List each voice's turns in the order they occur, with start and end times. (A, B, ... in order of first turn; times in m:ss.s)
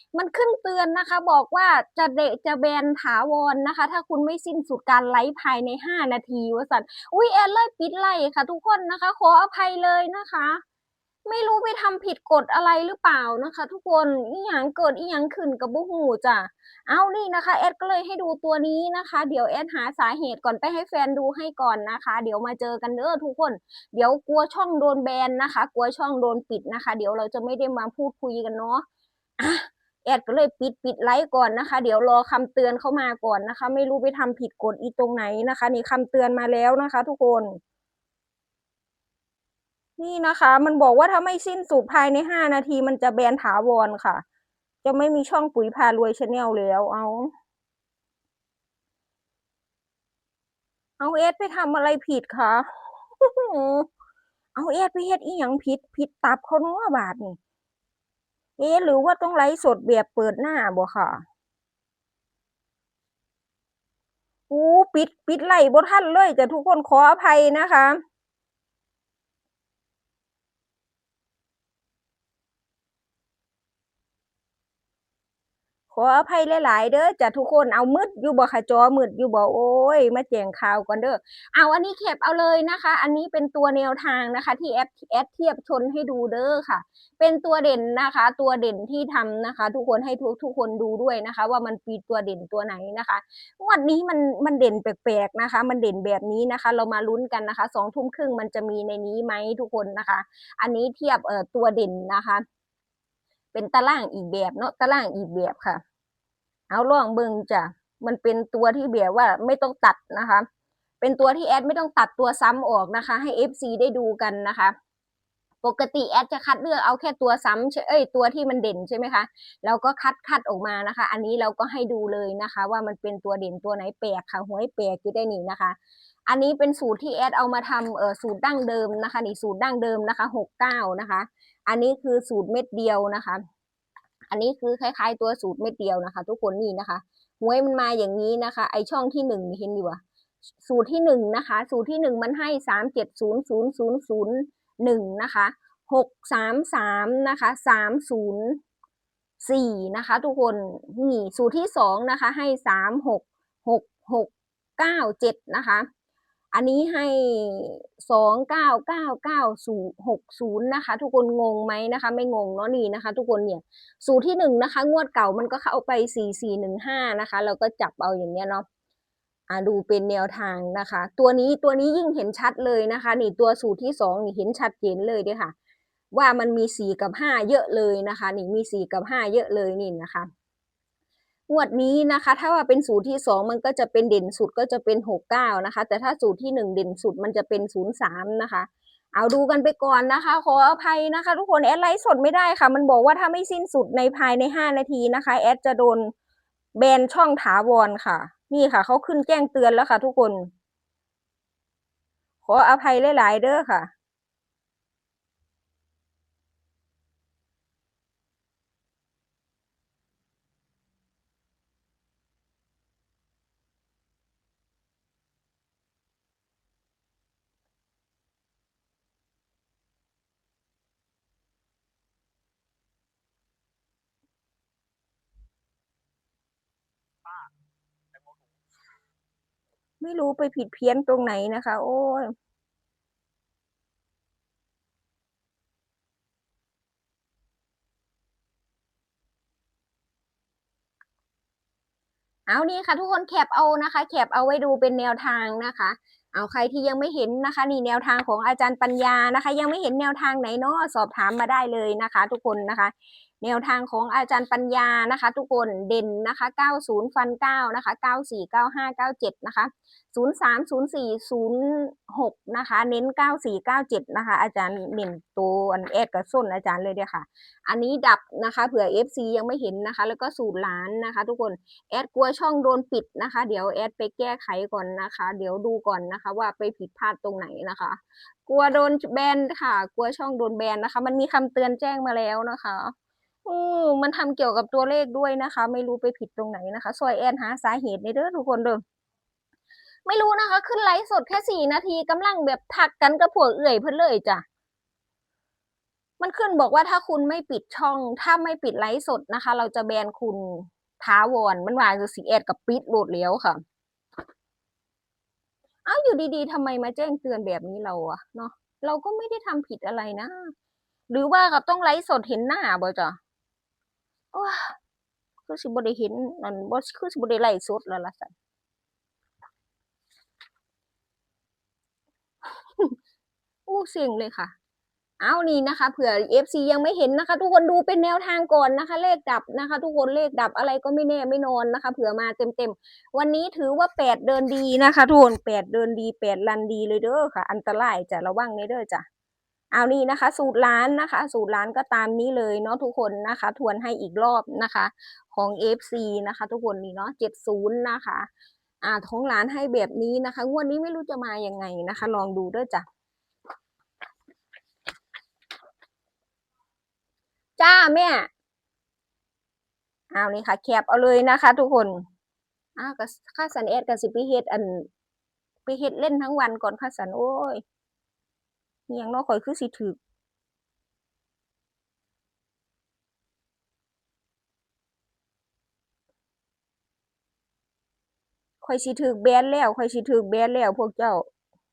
0:00.1-0:10.6 A
0:11.2-0:28.8 A
0:29.4-0:37.6 A
0:40.0-0:44.2 A
0:44.8-0:47.3 A
0:51.0-0:52.7 A
0:53.2-0:53.9 A
0:54.5-0:57.4 A
0:58.6-1:01.2 A
1:04.5-1:08.0 A
1:15.9-1:42.4 A
1:43.5-1:45.8 A
1:46.7-1:50.4 A
1:51.0-1:54.7 A
1:55.6-2:05.8 A
2:06.3-2:13.4 A
2:14.3-2:20.0 A
2:20.6-2:28.6 A
2:29.4-2:35.8 A
2:36.5-2:48.6 A
2:49.5-2:55.5 A
2:56.1-3:00.3 A
3:01.5-3:16.1 A
3:16.7-3:20.5 A
3:22.4-3:23.9 A
3:50.0-3:52.3 A
4:02.5-4:42.9 A
4:43.4-4:48.8 A
4:50.0-4:54.4 A
4:56.2-5:03.6 A
5:05.8-5:10.5 A
5:11.1-5:13.2 A
5:14.3-5:14.8 A
5:15.4-5:18.3 A
5:23.7-5:24.5 A
5:25.2-5:39.0 A
5:39.7-5:48.3 A
5:48.8-5:52.8 A
5:57.6-5:58.3 A
6:00.1-6:02.0 A
6:02.8-6:04.9 A
6:05.6-6:07.6 A
6:08.9-6:10.0 A
6:18.6-6:21.2 A